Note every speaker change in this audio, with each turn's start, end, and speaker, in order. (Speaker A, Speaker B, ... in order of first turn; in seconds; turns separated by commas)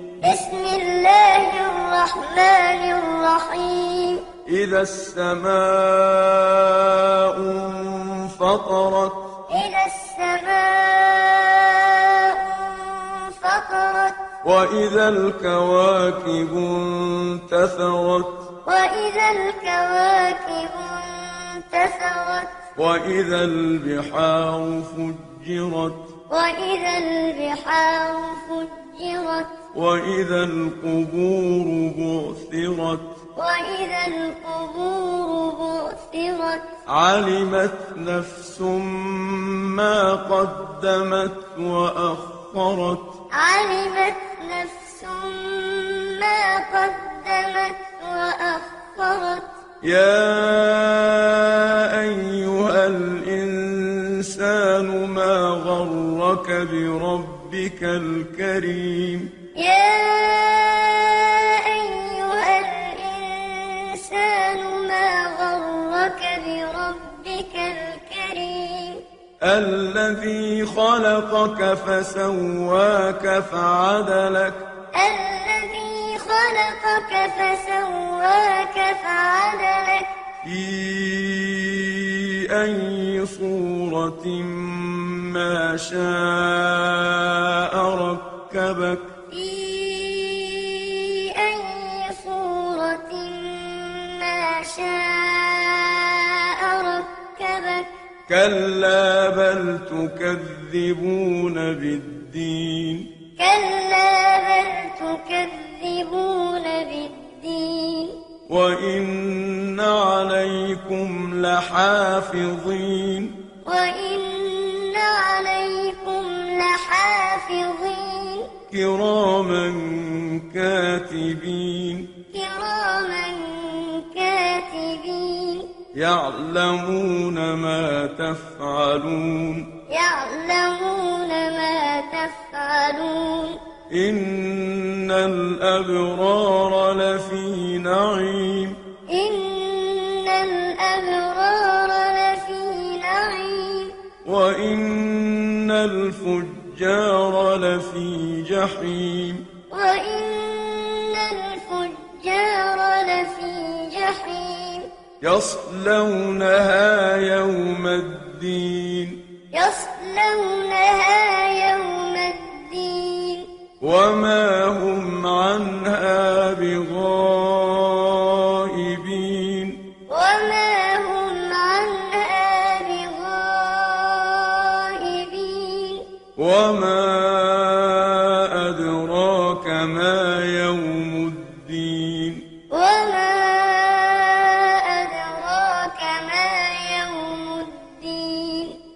Speaker A: 0.2-4.2, Speaker B: 4.5-9.3, Speaker A: 9.5-14.2, Speaker B: 14.4-18.4, Speaker A: 18.6-22.6, Speaker B: 22.8-26.1, Speaker A: 26.3-29.5, Speaker B: 29.7-33.1, Speaker A: 33.4-36.7, Speaker B: 36.9-43.1, Speaker A: 43.3-49.5, Speaker B: 49.8-59.3, Speaker A: 59.5-69.0, Speaker B: 69.4-74.7, Speaker A: 74.9-80.1, Speaker B: 80.4-89.1, Speaker A: 89.3-97.9, Speaker B: 98.3-103.1, Speaker A: 103.4-108.2, Speaker B: 108.5-113.3, Speaker A: 113.6-118.5, Speaker B: 118.7-122.1, Speaker A: 122.3-125.7, Speaker B: 125.9-129.7, Speaker A: 129.9-133.6, Speaker B: 133.9-138.8, Speaker A: 139.1-143.9, Speaker B: 144.2-149.4, Speaker A: 149.7-154.9, Speaker B: 155.2-159.2, Speaker A: 159.5-163.5, Speaker B: 163.8-169.8, Speaker A: 170.1-176.0, Speaker B: 176.3-182.4, Speaker A: 182.7-188.8